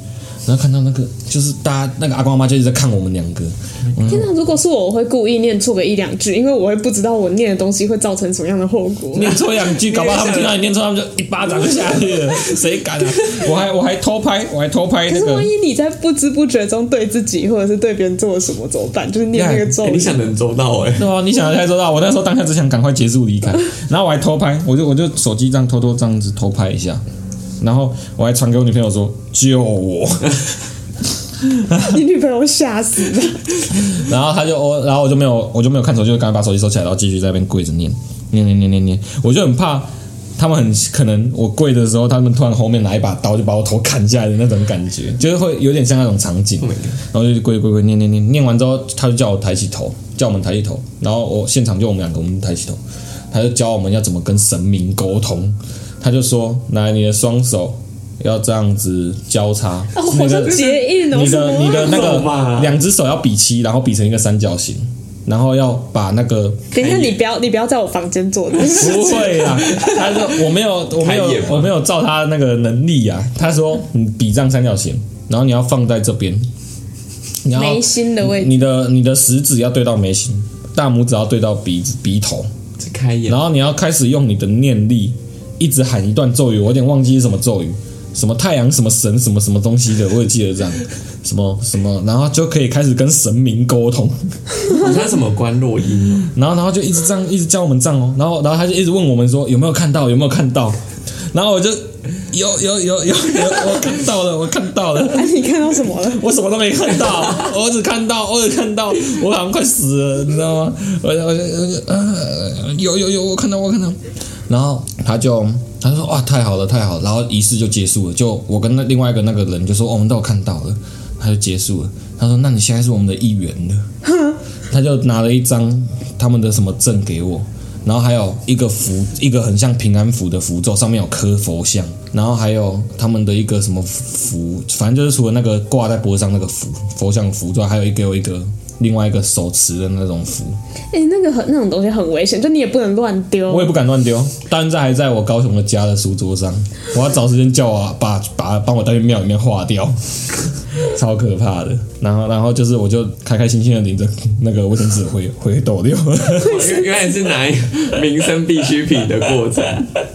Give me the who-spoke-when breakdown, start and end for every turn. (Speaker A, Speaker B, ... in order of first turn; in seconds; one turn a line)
Speaker A: 0.5-4.3
Speaker B: 4.0-9.4
Speaker A: 9.1-15.5
Speaker C: 9.5-10.6
Speaker C: 13.2-13.5
Speaker B: 15.1-20.2
Speaker A: 19.3-19.7
Speaker C: 19.8-21.1
Speaker A: 21.0-27.0
Speaker A: 27.6-30.4
Speaker A: 31.5-32.0
Speaker B: 31.8-33.4
Speaker A: 33.8-52.8
Speaker C: 46.6-47.0
Speaker A: 53.3-66.6
Speaker B: 59.9-62.3
Speaker C: 60.5-60.8
Speaker C: 61.6-62.8
Speaker B: 66.7-69.5
Speaker C: 66.8-67.2
Speaker A: 68.7-76.4
Speaker C: 68.8-70.4
Speaker C: 71.0-71.8
Speaker A: 77.5-82.5
Speaker B: 77.5-78.6
Speaker C: 82.8-83.4
Speaker A: 83.3-94.8
Speaker C: 94.7-96.3
Speaker A: 96.3-100.8
Speaker A: 101.3-105.4
Speaker B: 105.1-106.2
Speaker A: 106.0-123.8
Speaker B: 124.0-124.4
Speaker A: 124.7-140.6
Speaker B: 140.9-143.7
Speaker A: 143.5-150.0
Speaker A: 150.8-156.7
Speaker C: 156.4-160.0
Speaker B: 156.4-156.8